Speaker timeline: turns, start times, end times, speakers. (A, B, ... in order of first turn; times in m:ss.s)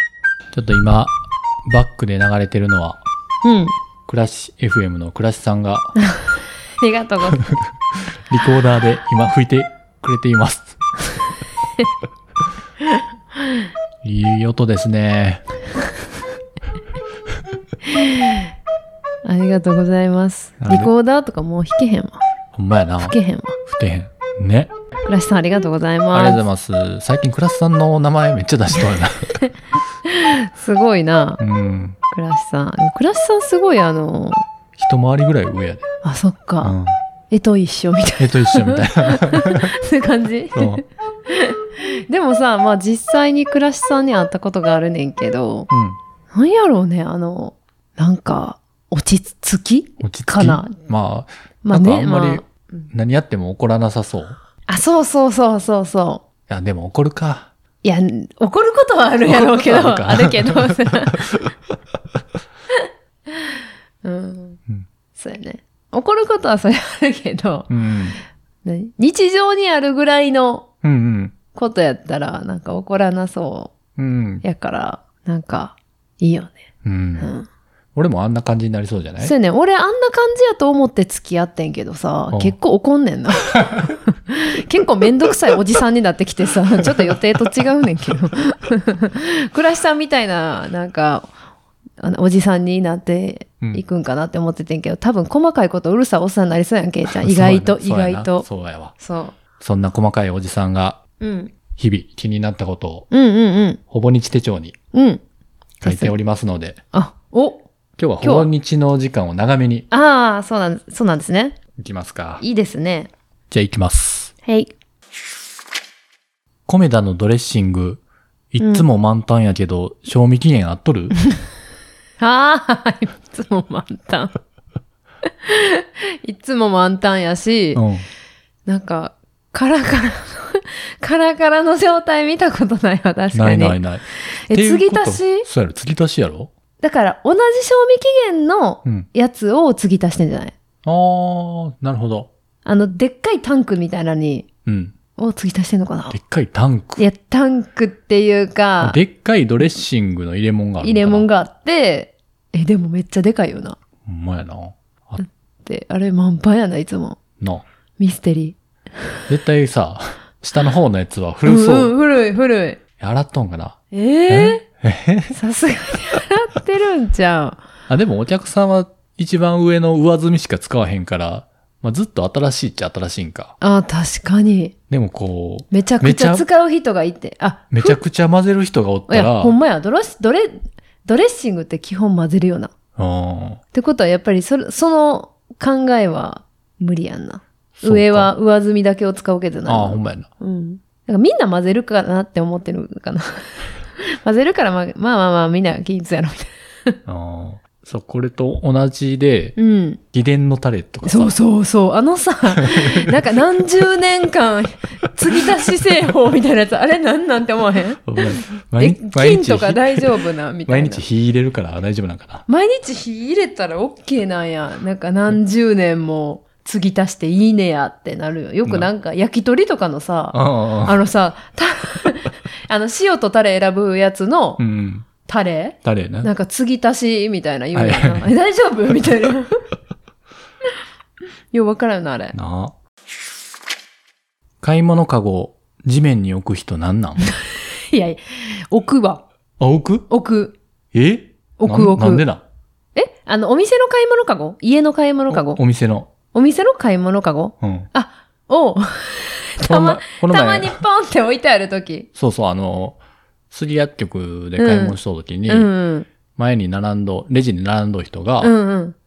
0:00.5-0:03.0 A
0:03.4-0:03.7 B
0:04.1-0:06.0 A
0:06.1-0:07.6 B
0:08.3-0:10.8 A
0:14.0-0:15.4 A
0:17.8-0:18.4 B
0:19.2-0:22.2 B
0:20.6-0:20.9 A
0:22.5-0:24.7 A
0:23.0-0:23.6 B
0:25.0-0:26.4 B
0:26.1-0:29.4 A
0:30.1-0:31.4 B
0:31.4-0:32.0 A
0:32.1-0:34.4 B
0:34.8-0:35.8 A
0:36.0-0:36.8 B
0:36.6-0:37.0 A
0:37.3-0:45.7 B
0:38.2-0:39.7 A
0:40.6-0:40.8 A
0:45.7-0:46.0 A
0:46.3-0:50.8 B
0:50.0-0:54.4 A
0:51.6-0:52.8 B
0:54.7-0:56.2 B
0:56.5-0:57.5 A
0:57.8-1:01.2 B
0:59.2-1:01.5 A
1:03.3-1:04.6 B
1:05.1-1:07.7 B
1:07.7-1:08.2 A
1:08.6-1:10.7 B
1:10.8-1:11.3 A
1:11.5-1:13.7 B
1:14.0-1:14.4 A
1:14.4-1:16.6 B
1:16.8-1:17.3 A
1:17.2-1:17.4 B
1:17.9-1:19.3 A
1:19.2-1:31.3 B
1:32.0-1:38.5 B
1:37.1-1:39.0 A
1:39.0-1:39.3 B
1:39.6-1:41.0 A
1:41.2-1:41.5 B
1:41.7-1:43.1 A
1:43.1-1:43.8 B
1:43.9-1:44.7 A
1:44.9-1:45.2 B
1:45.8-1:46.8 A
1:45.8-1:46.1 B
1:46.9-1:47.6 B
1:48.0-1:49.9 A
1:48.2-1:48.5 B
1:49.9-1:51.6 B
1:51.8-1:52.4 A
1:52.4-1:53.1 B
1:53.5-1:54.3 A
1:54.4-1:54.7 B
1:56.7-1:58.0 A
1:58.5-2:01.2 A
2:02.2-2:04.4 B
2:05.4-2:07.8 B
2:07.7-2:08.0 A
2:08.7-2:13.8 B
2:13.3-2:16.5 A
2:14.3-2:15.5 B
2:16.8-2:20.5 B
2:20.8-2:22.3 A
2:22.6-2:24.5 B
2:24.6-2:24.9 A
2:25.2-2:26.2 B
2:26.1-2:27.0 A
2:27.0-2:29.0 B
2:28.8-2:31.3 A
2:30.8-2:33.8 B
2:34.0-2:35.2 A
2:35.2-2:37.2 B
2:38.0-2:38.6 B
2:39.3-2:41.9 A
2:41.4-2:42.8 B
2:43.0-2:45.4 A
2:43.9-2:44.6 B
2:45.3-2:47.6 B
2:47.9-2:53.5 A
2:53.6-2:54.7 B
2:54.9-2:56.4 A
2:55.7-2:58.0 B
2:57.7-2:59.6 A
2:59.1-3:00.5 B
3:01.0-3:02.7 B
3:03.0-3:03.6 A
3:03.7-3:17.0 B
3:07.8-3:08.3 A
3:09.6-3:10.3 A
3:17.0-3:19.6 A
3:19.6-3:20.0 B
3:20.1-3:21.3 A
3:21.0-3:28.1 B
3:28.0-3:32.4 A
3:28.8-3:31.0 B
3:32.5-3:44.6 B
3:40.3-3:41.0 A
3:44.6-3:45.1 A
3:45.2-3:49.6 B
3:45.8-3:46.3 A
3:47.7-3:48.3 A
3:51.5-3:52.4 B
3:52.3-3:52.7 A
3:54.6-3:57.2 A
3:57.2-3:59.2 B
3:59.6-4:00.1 A
4:00.1-4:00.6 B
4:00.9-4:02.4 A
4:01.6-4:02.2 B
4:02.9-4:05.6 B
4:05.3-4:06.1 A
4:06.3-4:12.1 B
4:07.6-4:07.9 A
4:09.6-4:10.8 A
4:12.1-4:13.0 A
4:13.5-4:15.7 A
4:14.6-4:15.0 B
4:15.5-4:16.1 B
4:16.3-4:18.5 A
4:18.4-4:19.0 B